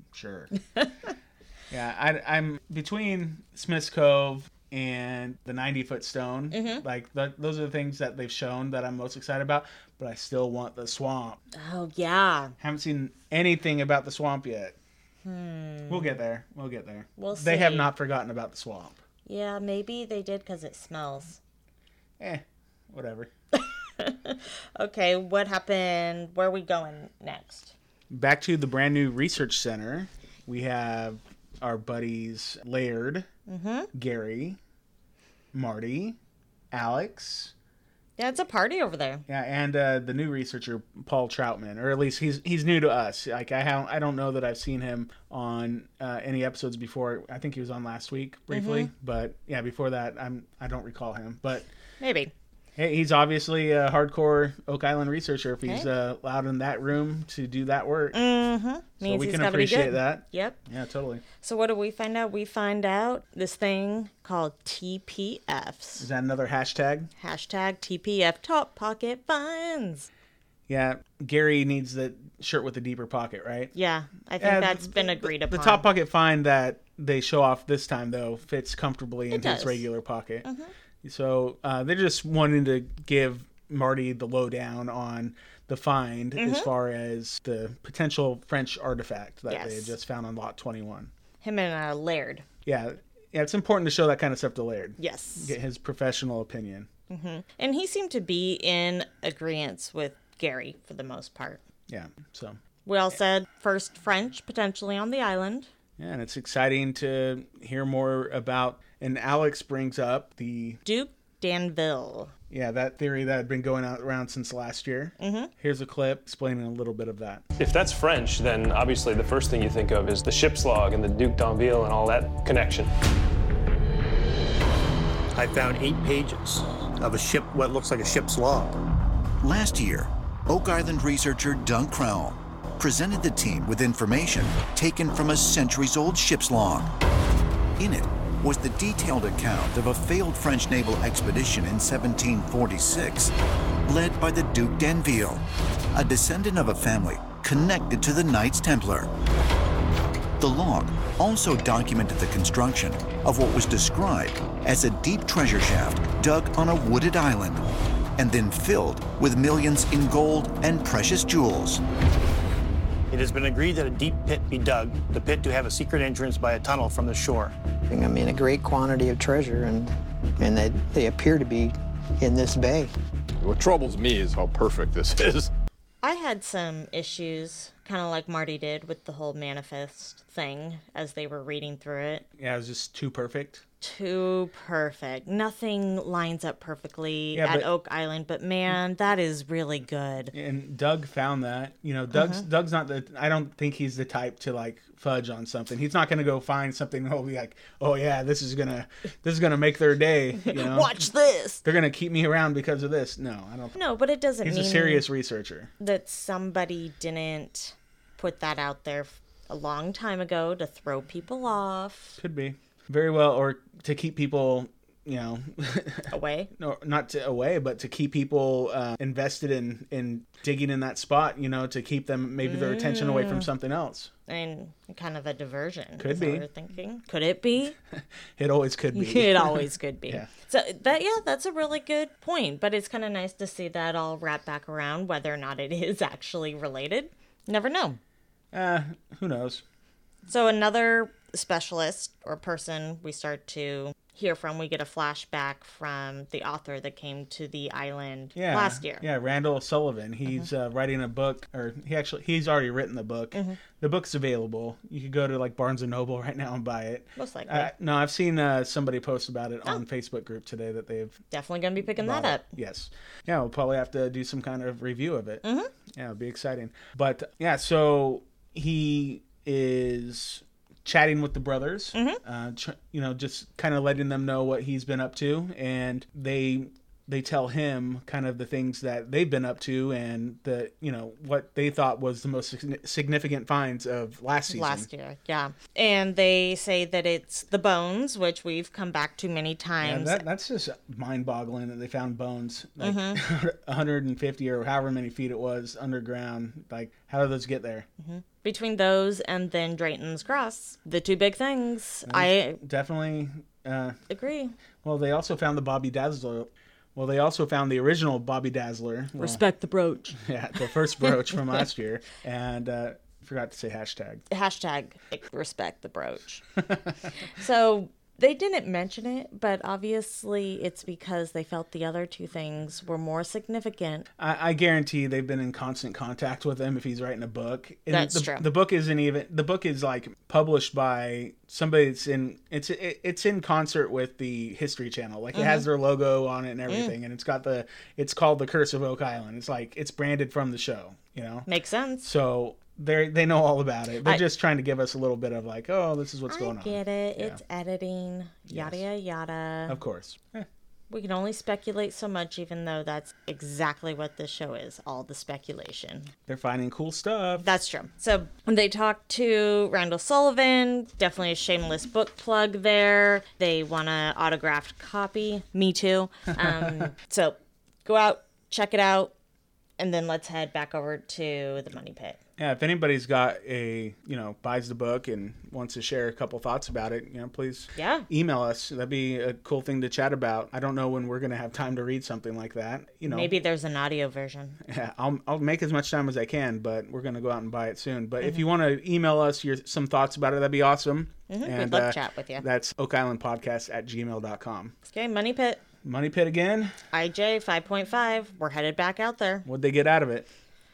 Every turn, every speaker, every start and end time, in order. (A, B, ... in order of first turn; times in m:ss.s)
0:00.1-0:00.5 A
0:00.8-0:01.1 B
0:01.7-0:11.4 A
0:06.5-0:06.8 B
0:11.5-0:12.5 B
0:12.6-0:14.8 A
0:15.2-0:16.2 B
0:15.9-0:19.0 A
0:17.2-0:17.9 B
0:19.3-0:21.4 B
0:22.2-0:23.3 A
0:23.5-0:27.7 B
0:28.1-0:33.3 A
0:33.5-0:33.9 B
0:33.9-0:34.6 A
0:35.5-0:36.2 A
0:36.7-0:37.5 A
0:38.2-0:39.2 B
0:39.3-0:51.7 A
0:48.5-0:48.9 B
0:52.0-0:52.3 B
0:52.8-0:58.2 A
0:58.1-1:00.6 B
0:59.0-1:01.2 A
1:01.4-1:06.1 B
1:06.0-1:07.1 A
1:07.2-1:10.1 B
1:10.7-1:13.7 A
1:13.7-1:15.8 B
1:14.4-1:20.5 A
1:19.3-1:19.8 B
1:20.4-1:20.7 B
1:21.0-1:31.1 A
1:26.4-1:26.7 B
1:29.5-1:29.9 B
1:31.4-1:32.4 B
1:32.6-1:36.9 A
1:35.0-1:35.6 B
1:37.1-1:41.6 B
1:41.9-1:42.6 A
1:42.9-1:45.7 B
1:46.0-1:50.8 A
1:50.8-1:52.3 B
1:52.5-1:57.4 A
1:55.2-1:55.5 B
1:57.6-2:02.9 C
2:05.3-2:08.8 D
2:09.4-2:16.9 E
2:17.8-2:29.1 E
2:30.4-2:41.8 E
2:43.1-2:47.6 D
2:47.9-2:53.0 F
2:53.4-2:55.5 G
2:56.0-3:02.2 B
3:02.4-3:03.6 A
3:03.8-3:10.3 B
3:07.3-3:07.7 A
3:10.3-3:21.0 A
3:12.1-3:12.4 B
3:20.4-3:21.6 B
3:21.6-3:23.8 A
3:23.8-3:25.0 B
3:24.4-3:25.7 A
3:25.8-3:32.2 B
3:32.2-3:44.1 A
3:36.1-3:36.5 B
3:42.4-3:43.5 B
3:44.3-3:47.8 B
3:46.0-3:46.5 A
3:48.0-3:50.3 A
3:48.9-3:58.0 B
3:58.5-3:59.6 A
4:00.3-4:09.0 B
4:08.4-4:21.2 A
4:13.3-4:13.6 B
4:17.2-4:17.7 B
4:21.3-4:22.4 B
4:22.0-4:44.9 A
4:25.4-4:25.7 B
4:31.9-4:32.2 B
4:44.5-4:50.2 B
4:49.8-4:57.9 A
4:52.8-4:53.2 B
4:58.0-5:02.6 B
5:02.1-5:04.0 A
5:04.1-5:04.5 B
5:04.8-5:09.4 A
5:09.2-5:10.2 B
5:10.2-5:14.2 A
5:14.3-5:16.4 B
5:16.6-5:17.0 A
5:17.3-5:24.1 B
5:24.2-5:41.5 A
5:27.9-5:28.5 B
5:35.3-5:35.7 B
5:36.7-5:36.9 B
5:41.5-5:42.1 B
5:42.0-5:47.4 A
5:46.3-5:49.8 B
5:48.5-5:48.8 A
5:49.7-5:50.5 A
5:50.9-5:56.1 B
5:56.3-5:57.4 A
5:57.4-6:09.1 B
6:09.8-6:12.2 B
6:12.4-6:23.4 A
6:17.8-6:18.1 B
6:23.0-6:24.6 B
6:24.6-6:34.8 A
6:31.3-6:32.4 B
6:34.9-6:35.6 B
6:35.8-6:36.7 A
6:36.9-6:39.5 B
6:39.4-6:40.3 A